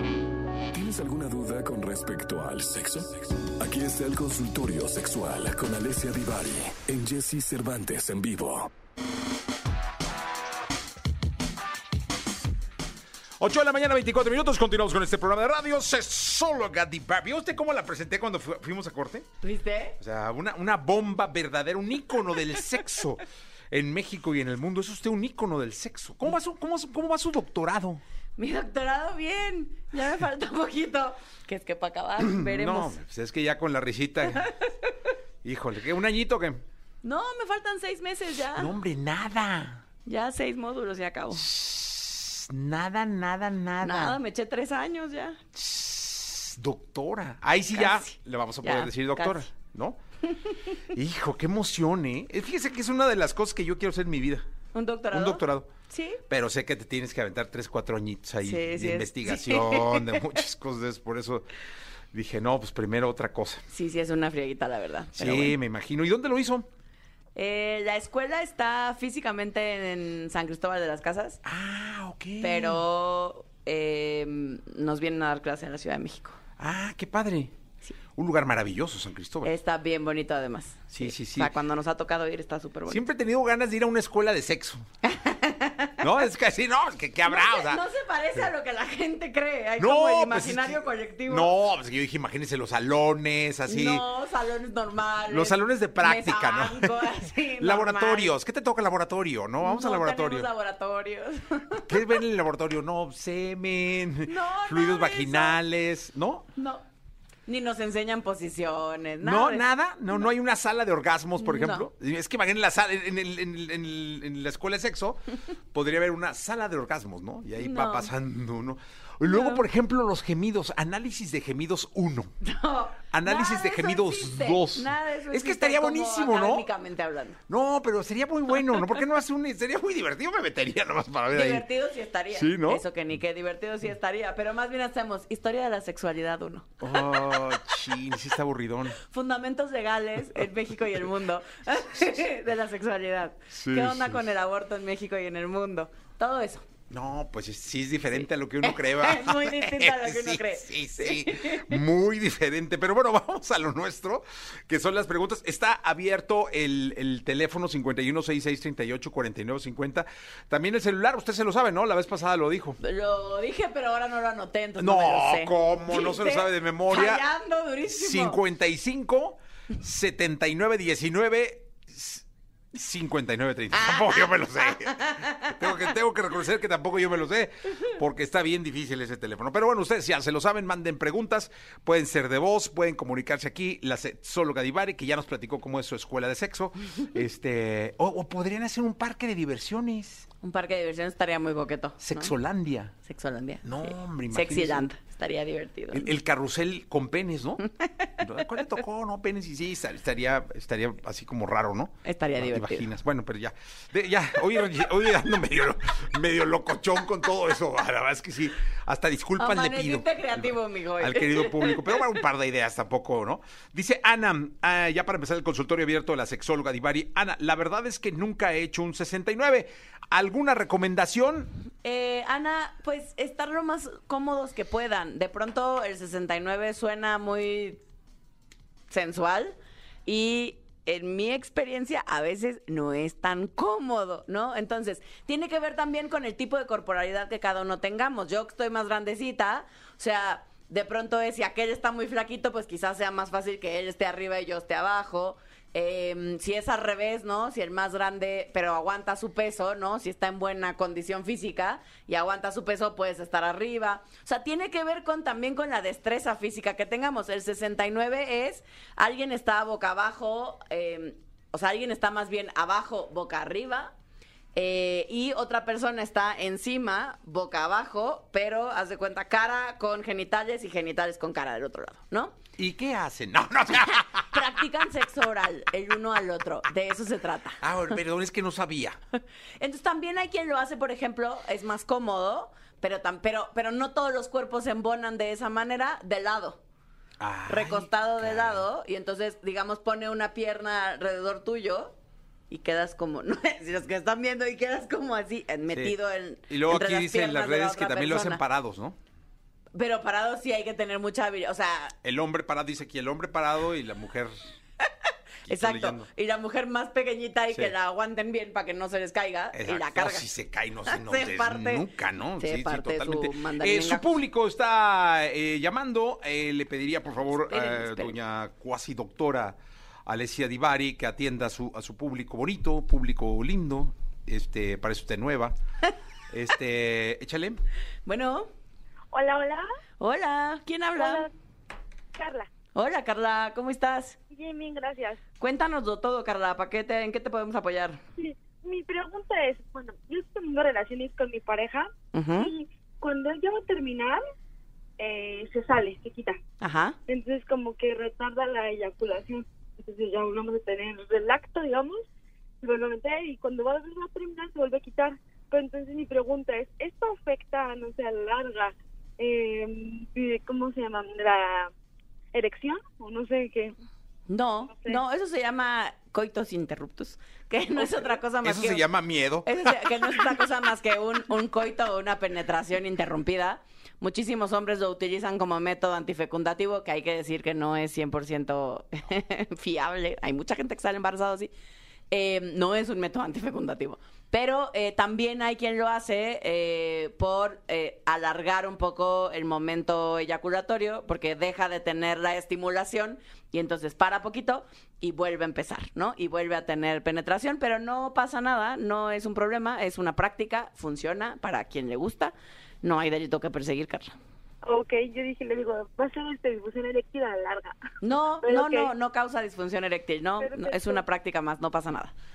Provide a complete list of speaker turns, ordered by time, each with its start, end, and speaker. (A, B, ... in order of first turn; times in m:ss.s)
0:00.7-0:08.7 A
0:13.4-0:19.3 B
0:19.4-0:20.0 C
0:20.0-0:28.0 B
0:28.4-0:33.0 C
0:32.2-0:34.5 B
0:34.3-0:34.9 C
0:35.4-0:36.6 B
0:37.0-0:38.7 C
0:38.6-0:39.8 B
0:40.0-0:41.4 C
0:41.3-0:44.2 B
0:43.8-0:45.4 C
0:45.5-0:50.0 B
0:47.7-0:49.5 C
0:50.2-0:50.8 C
0:50.9-0:54.4 B
0:54.7-0:56.2 C
0:55.1-0:55.7 B
0:56.3-1:01.4 B
0:58.4-1:00.2 C
1:02.1-1:03.6 B
1:03.7-1:05.6 C
1:05.2-1:06.7 B
1:07.3-1:11.4 C
1:11.4-1:12.8 B
1:12.4-1:16.4 C
1:16.6-1:17.5 B
1:18.1-1:19.5 B
1:19.4-1:23.1 C
1:20.9-1:21.5 B
1:22.9-1:24.8 B
1:25.0-1:26.0 C
1:26.0-1:27.8 B
1:27.2-1:31.5 C
1:29.8-1:34.0 B
1:33.7-1:38.4 C
1:35.3-1:40.5 B
1:39.6-1:42.0 C
1:41.9-1:46.5 B
1:44.3-1:45.6 C
1:46.6-1:46.8 C
1:47.5-1:50.3 C
1:49.2-2:02.3 B
1:51.4-1:51.9 C
1:57.6-1:58.1 C
1:59.2-1:59.6 C
2:02.4-2:07.4 C
2:03.1-2:06.7 B
2:07.5-2:11.6 B
2:11.3-2:17.5 C
2:12.3-2:12.8 B
2:16.8-2:19.0 B
2:19.0-2:26.6 C
2:23.5-2:24.2 B
2:26.9-2:42.8 B
2:28.6-2:31.8 C
2:42.8-2:48.4 C
2:44.8-2:47.2 B
2:47.9-3:10.2 B
2:53.7-2:55.9 C
3:10.4-3:12.3 C
3:12.0-3:12.9 B
3:13.0-3:16.1 C
3:13.6-3:14.8 B
3:15.9-3:17.6 B
3:17.6-3:18.1 C
3:18.2-3:41.5 B
3:22.0-3:22.9 C
3:29.4-3:32.0 C
3:41.8-3:47.8 C
3:48.9-4:23.9 C
4:24.5-4:32.4 C
4:32.6-4:34.4 B
4:34.3-4:37.6 C
4:37.6-4:39.0 B
4:39.6-4:46.6 C
4:47.2-4:48.6 B
4:47.5-4:52.0 C
4:52.5-4:58.4 C
4:55.7-4:55.9 B
4:56.5-4:59.0 B
4:59.7-5:01.9 C
5:02.0-5:04.5 B
5:05.4-5:06.1 B
5:05.5-5:10.3 C
5:09.5-5:25.6 B
5:10.9-5:11.8 C
5:12.4-5:14.2 C
5:17.5-5:18.2 C
5:26.3-5:27.6 B
5:28.0-5:28.5 C
5:29.1-5:29.6 D
5:30.0-5:31.3 C
5:30.9-5:31.3 D
5:32.2-5:32.5 D
5:32.7-5:34.2 C
5:34.3-5:35.2 D
5:35.4-5:38.0 C
5:38.2-5:44.2 D
5:42.1-5:42.5 C
5:45.0-5:46.4 D
5:46.6-5:47.0 C
5:47.1-5:52.0 D
5:52.6-6:01.7 D
6:02.3-6:03.8 D
6:04.3-6:08.8 C
6:04.7-6:05.0 D
6:08.4-6:10.4 B
6:09.4-6:21.5 C
6:22.1-6:44.1 C
6:44.6-6:47.8 D
6:48.0-6:52.1 C
6:48.4-6:48.9 D
6:50.4-6:51.0 D